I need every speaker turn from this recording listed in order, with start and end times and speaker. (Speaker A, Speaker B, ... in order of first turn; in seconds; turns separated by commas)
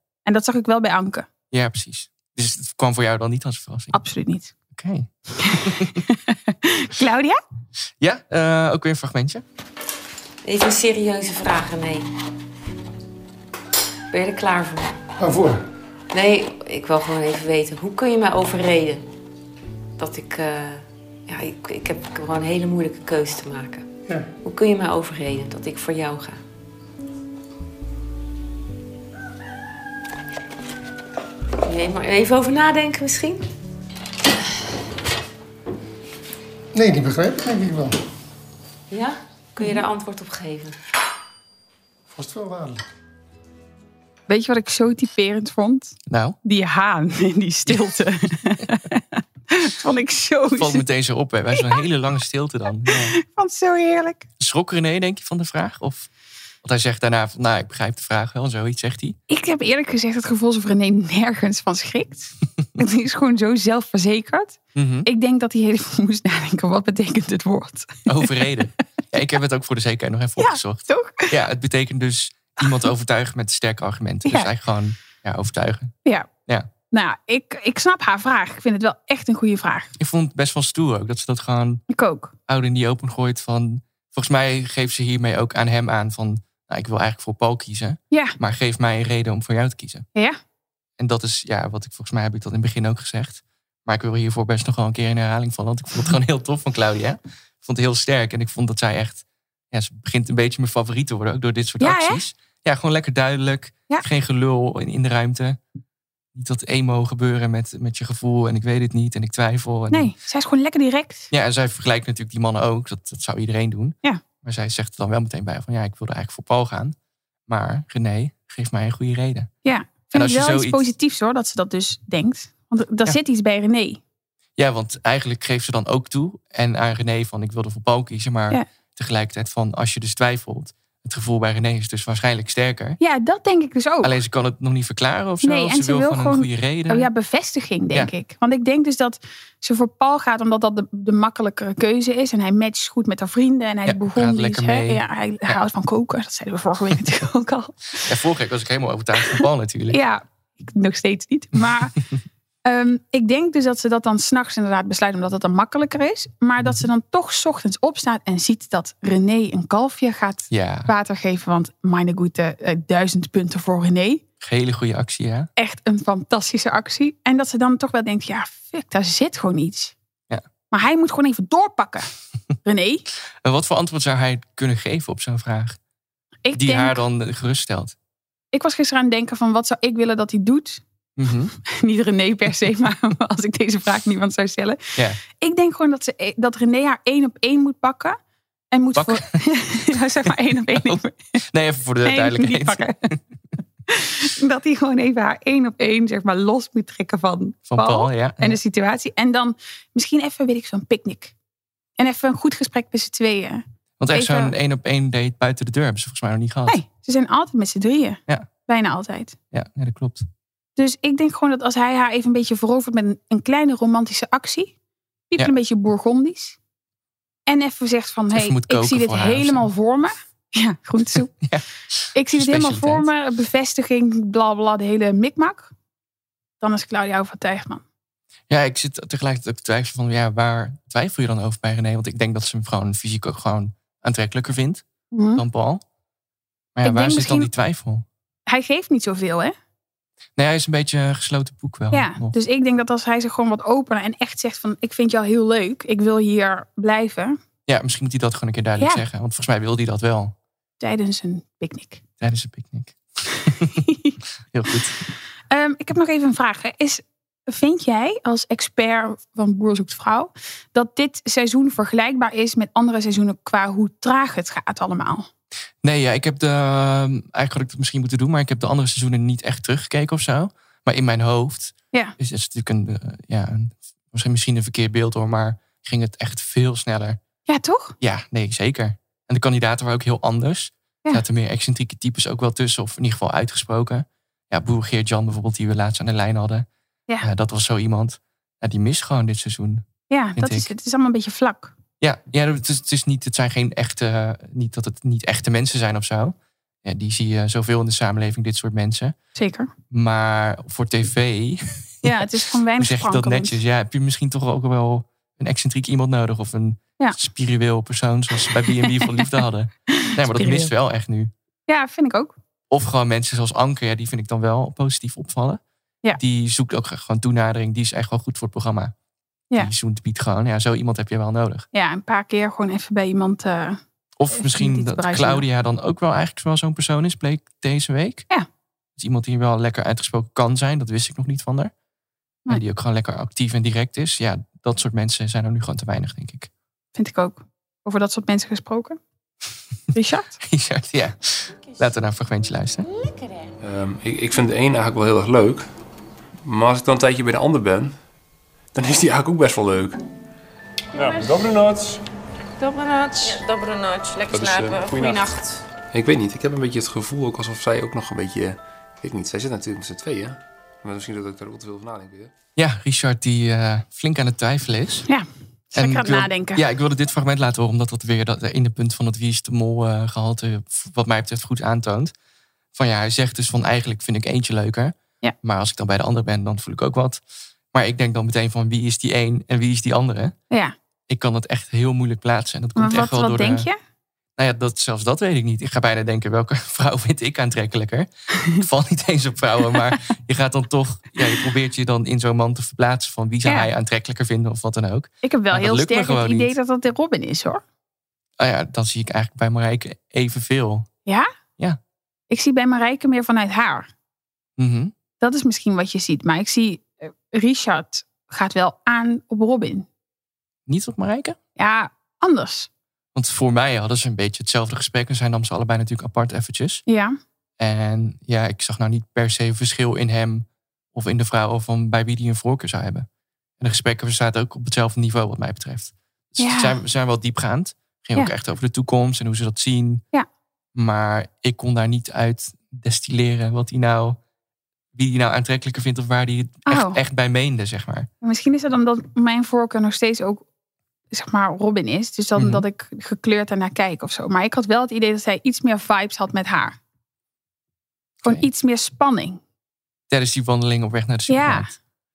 Speaker A: 0.2-1.3, Speaker B: 1.5-4.0, Speaker A: 3.9-4.5, Speaker B: 4.7-6.0, Speaker A: 5.4-7.4, Speaker B: 8.0-9.4, Speaker C: 10.4-12.1, Speaker C: 14.1-15.0, Speaker D: 15.2-15.6, Speaker C: 16.1-19.0, Speaker C: 20.0-23.9, Speaker C: 24.4-26.4, Speaker C: 31.6-33.4, Speaker D: 36.7-38.0, Speaker C: 38.9-40.8, Speaker D: 42.1-42.8, Speaker A: 44.3-50.8, Speaker B: 46.1-46.4, Speaker B: 50.6-53.1, Speaker A: 51.5-51.8, Speaker A: 52.9-54.3, Speaker B: 54.4-56.1, Speaker B: 56.6-59.2, Speaker A: 59.3-68.7, Speaker B: 64.7-65.1, Speaker B: 68.0-76.0, Speaker A: 70.4-71.3, Speaker A: 76.9-79.9, Speaker B: 80.0-81.8, Speaker A: 81.9-82.3, Speaker B: 82.5-90.0, Speaker A: 88.1-88.3, Speaker B: 91.0-105.6, Speaker A: 101.8-102.2, Speaker B: 106.3-110.1, Speaker A: 109.9-111.3, Speaker B: 111.3-117.0, Speaker B: 117.5-119.5, Speaker A: 119.6-124.0, Speaker B: 120.1-120.8, Speaker B: 124.6-133.0, Speaker A: 133.0-134.1, Speaker B: 134.0-137.1, Speaker A: 135.4-148.2, Speaker B: 143.9-145.6, Speaker B: 148.1-150.0, Speaker A: 149.2-152.0, Speaker A: 152.6-164.2, Speaker B: 160.5-160.9, Speaker B: 164.4-165.5, Speaker A: 165.6-169.9, Speaker A: 170.7-172.1, Speaker A: 172.6-173.0, Speaker B: 173.4-175.8, Speaker A: 176.4-177.0, Speaker B: 176.5-177.9, Speaker A: 178.5-180.8, Speaker B: 181.2-181.5, Speaker A: 181.6-184.8, Speaker A: 185.4-188.2, Speaker A: 188.7-191.3, Speaker B: 188.9-189.2, Speaker B: 190.6-193.2, Speaker A: 192.0-193.0, Speaker A: 193.9-201.3, Speaker B: 197.7-198.6, Speaker A: 202.0-204.5, Speaker B: 204.0-206.8, Speaker A: 206.7-209.3, Speaker B: 209.5-210.2, Speaker A: 210.8-214.7, Speaker A: 215.3-216.6, Speaker A: 217.5-221.3, Speaker B: 218.3-219.7, Speaker B: 221.4-223.1, Speaker A: 222.1-225.7, Speaker A: 226.6-227.8, Speaker B: 228.5-235.8, Speaker A: 235.1-235.4, Speaker B: 236.8-238.0, Speaker A: 236.8-237.5, Speaker A: 238.5-239.5, Speaker B: 240.4-242.3, Speaker A: 241.9-247.4, Speaker B: 247.7-250.3, Speaker A: 248.8-249.0, Speaker A: 250.8-252.0, Speaker B: 252.2-253.8, Speaker A: 253.7-254.1, Speaker B: 254.5-255.0, Speaker A: 255.5-265.3, Speaker B: 265.8-277.2, Speaker A: 277.5-277.9, Speaker B: 278.0-286.7, Speaker B: 287.2-290.7, Speaker A: 290.1-291.7, Speaker B: 292.0-299.1, Speaker A: 299.4-299.7, Speaker B: 299.9-302.2, Speaker A: 302.0-303.6, Speaker B: 302.8-311.3, Speaker A: 308.4-309.3, Speaker A: 309.9-310.7, Speaker A: 311.7-312.3, Speaker B: 312.7-315.6, Speaker B: 316.1-318.9, Speaker B: 319.5-321.7, Speaker A: 321.7-323.8, Speaker B: 324.2-328.2, Speaker A: 324.3-325.4, Speaker B: 329.0-331.7, Speaker B: 332.5-336.5, Speaker A: 336.9-339.0, Speaker A: 339.9-340.4, Speaker B: 340.4-342.9, Speaker E: 343.6-345.7, Speaker E: 346.4-348.0, Speaker E: 348.7-350.0, Speaker E: 350.9-352.0, Speaker F: 352.6-355.5, Speaker E: 354.3-355.4, Speaker E: 355.9-362.3, Speaker B: 362.6-365.1, Speaker A: 365.1-366.6, Speaker B: 365.8-372.1, Speaker B: 372.7-377.2, Speaker B: 377.7-380.4, Speaker B: 381.1-383.7, Speaker A: 382.8-383.8, Speaker B: 384.4-396.5, Speaker A: 395.2-397.6, Speaker B: 398.4-400.9, Speaker A: 402.3-403.9, Speaker B: 404.6-404.9, Speaker A: 405.2-409.9, Speaker B: 410.7-411.4, Speaker A: 411.6-412.7, Speaker B: 413.1-416.8, Speaker A: 416.9-417.1, Speaker B: 417.6-423.1, Speaker B: 423.6-430.0, Speaker A: 426.4-426.8, Speaker B: 430.7-434.2, Speaker B: 434.9-438.1, Speaker A: 436.7-437.0, Speaker A: 438.2-440.4, Speaker A: 441.1-446.8, Speaker B: 442.4-442.6, Speaker A: 448.2-449.4, Speaker B: 450.1-451.7, Speaker A: 451.3-451.7